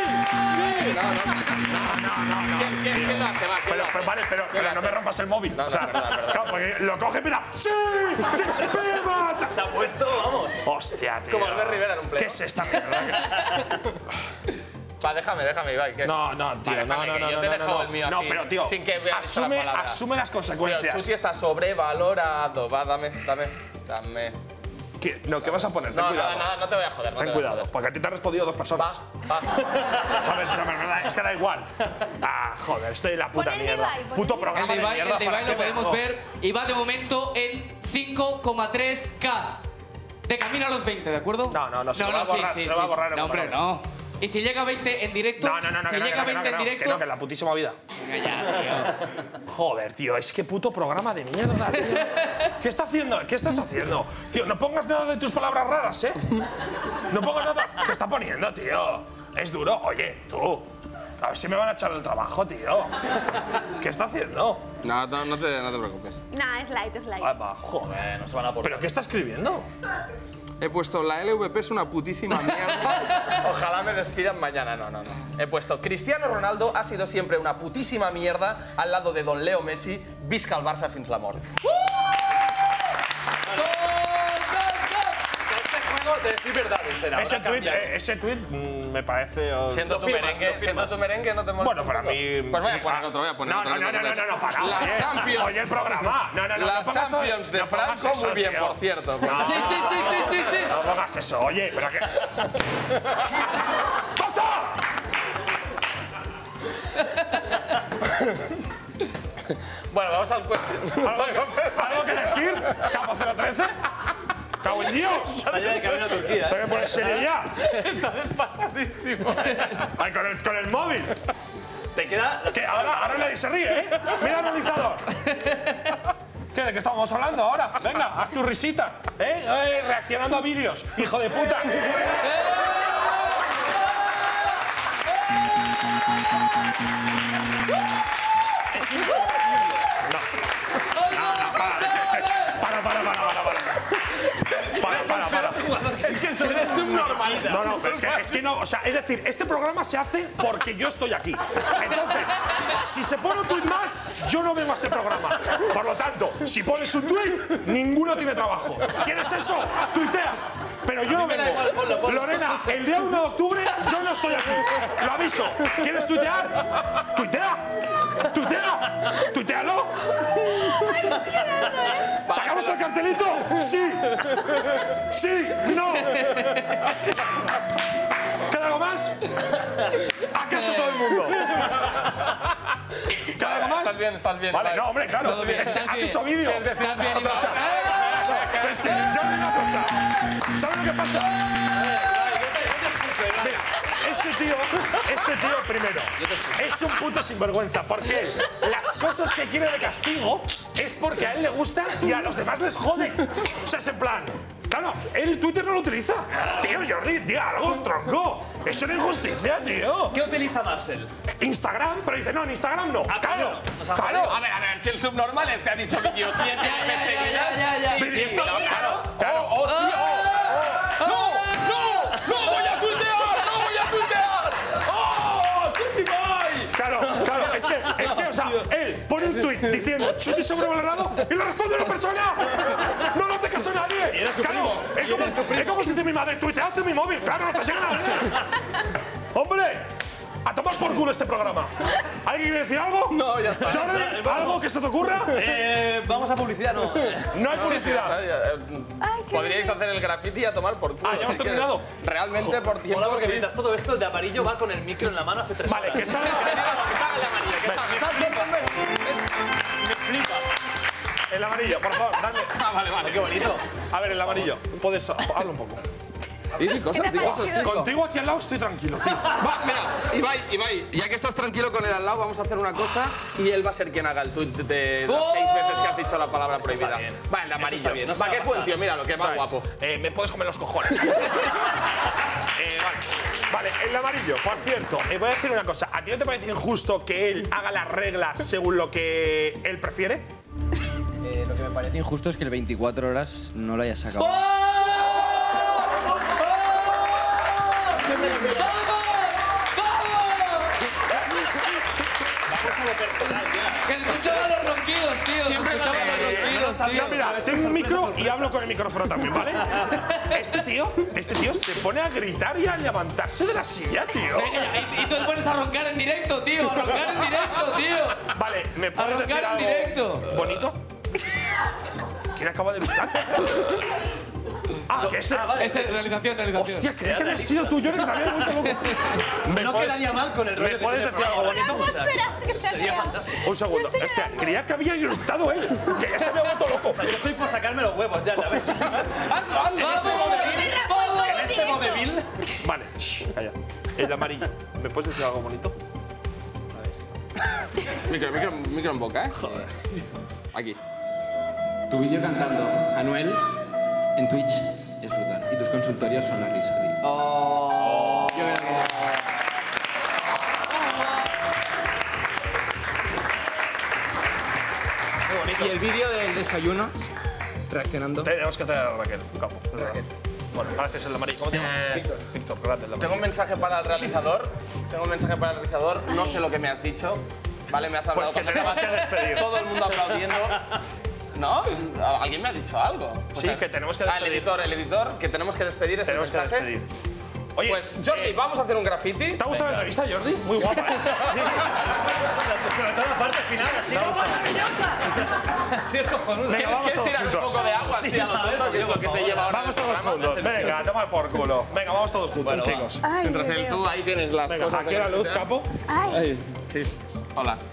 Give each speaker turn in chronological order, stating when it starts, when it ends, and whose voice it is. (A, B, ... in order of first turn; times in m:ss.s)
0:00.4-0:01.7 A
0:01.6-0:09.7 B
0:02.5-0:06.6 A
0:09.5-0:10.6 C
0:10.6-0:13.4 B
0:11.3-0:12.4 A
0:15.0-0:20.0 A
0:16.0-0:21.1 B
0:20.6-0:24.4 A
0:25.0-0:26.6 B
0:25.9-0:27.7 A
0:27.2-0:29.0 B
0:28.7-0:30.2 A
0:30.1-0:36.0 B
0:33.3-0:34.9 D
0:34.5-0:39.6 E
0:40.2-0:47.0 E
0:41.5-0:43.6 B
0:45.4-0:47.8 B
0:48.0-0:49.0 E
0:49.5-1:04.6 B
1:04.8-1:06.2 A
1:06.3-1:07.4 D
1:07.2-1:08.0 B
1:07.8-1:08.9 C
1:08.6-1:09.7 B
1:10.6-1:21.5 A
1:23.4-1:23.9 C
1:23.6-1:25.1 E
1:25.3-1:27.9 C
1:27.1-1:31.0 B
1:29.7-1:35.8 A
1:31.6-1:42.3 B
1:36.5-1:40.3 A
1:39.3-1:40.7 E
1:43.8-1:44.8 B
1:49.9-1:52.8 A
1:51.0-1:53.7 B
1:54.6-1:55.5 B
1:55.4-1:56.3 A
1:55.5-1:57.2 C
1:56.4-1:57.7 B
1:57.5-1:59.9 A
1:59.8-2:01.1 B
2:01.9-2:03.3 C
2:02.4-2:05.3 B
2:06.5-2:11.9 B
2:12.2-2:13.1 E
2:18.8-2:19.0 B
2:18.9-2:19.8 C
2:20.9-2:22.6 E
2:21.0-2:24.0 B
2:24.6-2:27.8 C
2:24.7-2:50.6 B
2:24.8-2:25.4 A
2:26.0-2:28.4 A
2:32.0-2:32.6 E
2:41.0-2:42.8 C
2:50.9-2:52.2 D
2:52.2-2:52.8 A
2:52.3-2:56.9 B
2:58.4-2:59.3 B
3:00.1-3:02.0 B
3:03.3-3:11.5 B
3:03.3-3:09.2 A
3:05.2-3:08.1 E
3:11.7-3:13.9 C
3:13.4-3:30.2 B
3:16.2-3:16.7 C
3:26.4-3:26.7 C
3:30.1-3:31.1 C
3:31.4-3:34.4 B
3:33.1-3:34.4 C
3:34.2-3:39.8 A
3:36.5-3:38.8 E
3:37.9-3:41.5 B
3:39.6-3:41.8 E
3:41.0-3:48.6 C
3:42.7-3:44.5 A
3:46.7-3:58.5 B
3:54.1-3:55.9 C
3:59.3-3:59.9 B
4:00.4-4:05.6 B
4:03.1-4:04.2 A
4:03.5-4:04.6 C
4:05.3-4:07.4 C
4:07.3-4:08.2 B
4:07.5-4:13.5 A
4:09.0-4:09.8 D
4:11.0-4:11.9 B
4:12.4-4:16.8 C
4:15.6-4:18.5 B
4:16.1-4:19.1 A
4:19.9-4:20.4 A
4:21.3-4:25.8 B
4:22.4-4:23.6 A
4:23.1-4:23.6 C
4:26.6-4:28.0 A
4:26.6-4:27.8 D
4:27.0-4:29.4 B
4:29.2-4:39.7 A
4:35.1-4:36.0 E
4:36.5-4:39.4 C
4:39.4-4:41.6 B
4:42.5-4:50.3 B
4:51.2-4:54.4 F
4:54.2-4:55.8 E
4:56.5-4:57.2 E
4:57.7-5:00.7 E
5:02.5-5:04.5 C
5:02.5-5:02.8 B
5:03.8-5:07.3 E
5:05.4-5:06.6 A
5:06.0-5:14.8 B
5:06.0-5:08.6 C
5:10.0-5:10.3 E
5:14.3-5:18.3 E
5:18.2-5:20.8 B
5:18.9-5:20.3 E
5:22.3-5:23.8 B
5:24.9-5:32.0 B
5:24.9-5:26.1 C
5:25.6-5:26.9 E
5:27.0-5:33.6 C
5:31.4-5:34.6 D
5:33.4-5:37.3 B
5:36.9-5:42.3 C
5:38.8-5:40.7 A
5:39.8-5:41.9 E
5:40.1-5:42.2 D
5:41.2-5:45.8 B
5:47.9-5:49.6 A
5:51.9-5:53.4 F
5:54.2-5:58.9 F
5:57.7-5:58.8 C
6:00.7-6:01.2 E
6:05.3-6:05.8 B
6:05.6-6:06.9 F
6:07.7-6:08.3 F
6:08.2-6:13.3 B
6:13.0-6:20.6 A
6:18.1-6:19.7 B
6:20.1-6:20.8 C
6:21.3-6:26.7 A
6:23.3-6:24.6 B
6:26.0-6:26.9 B
6:27.5-6:28.4 B
6:27.6-6:29.4 A
6:29.4-6:31.7 B
6:29.5-6:29.8 C
6:31.1-6:36.8 C
6:33.2-6:34.7 B
6:34.5-6:35.0 D
6:36.4-6:38.2 B
6:36.5-6:40.7 A
6:37.9-6:40.9 C
6:39.4-6:43.0 B
6:42.4-6:43.0 C
6:43.0-6:43.9 D
6:43.2-6:45.5 A
6:44.5-6:45.7 B
6:45.9-6:46.3 D
6:46.1-6:47.6 A